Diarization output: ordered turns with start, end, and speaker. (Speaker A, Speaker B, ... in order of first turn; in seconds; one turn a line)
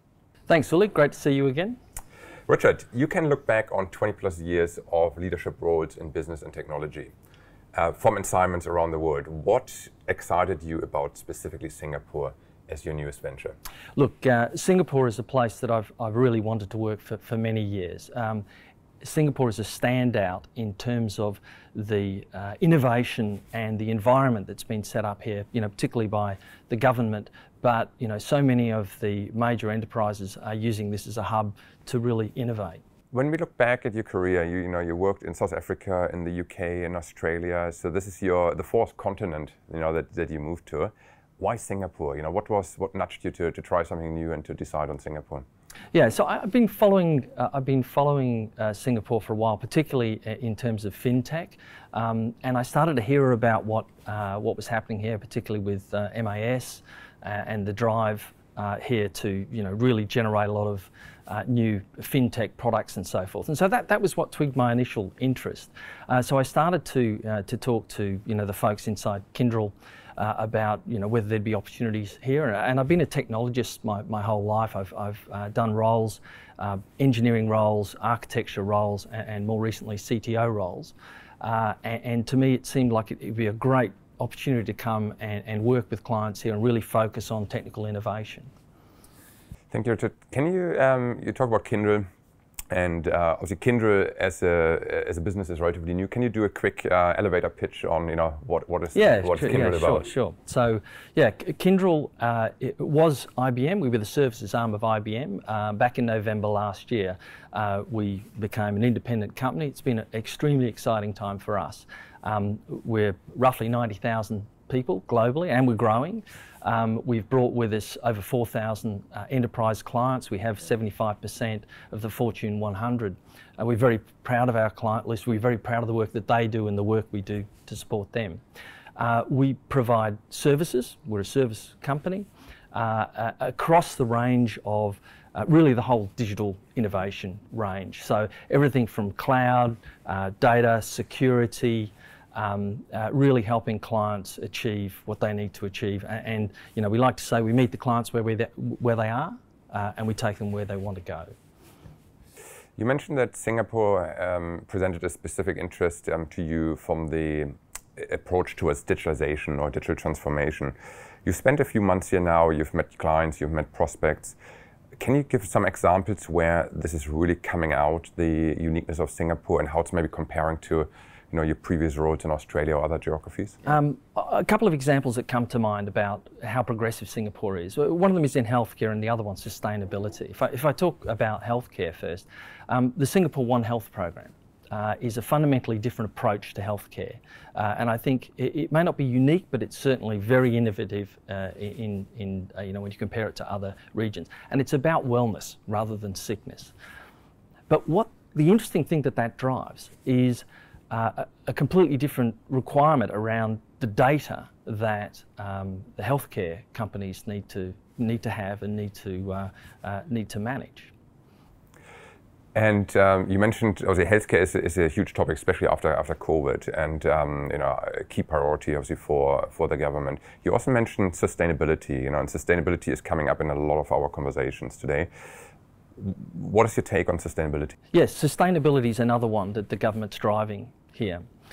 Speaker A: 0.5-1.8
Speaker B: 2.5-7.1
Speaker B: 7.8-13.6
Speaker A: 13.9-18.4
Speaker A: 19.0-32.8
Speaker B: 33.1-45.5
Speaker A: 45.9-88.5
Speaker B: 89.7-92.1
Speaker B: 92.7-100.1
Speaker A: 98.9-128.4
Speaker A: 128.9-151.3
Speaker B: 152.8-164.4
Speaker B: 165.0-173.6
Speaker A: 173.6-196.7
Speaker A: 197.7-210.9
Speaker B: 212.6-225.1
Speaker B: 226.0-227.8
Speaker A: 227.9-231.2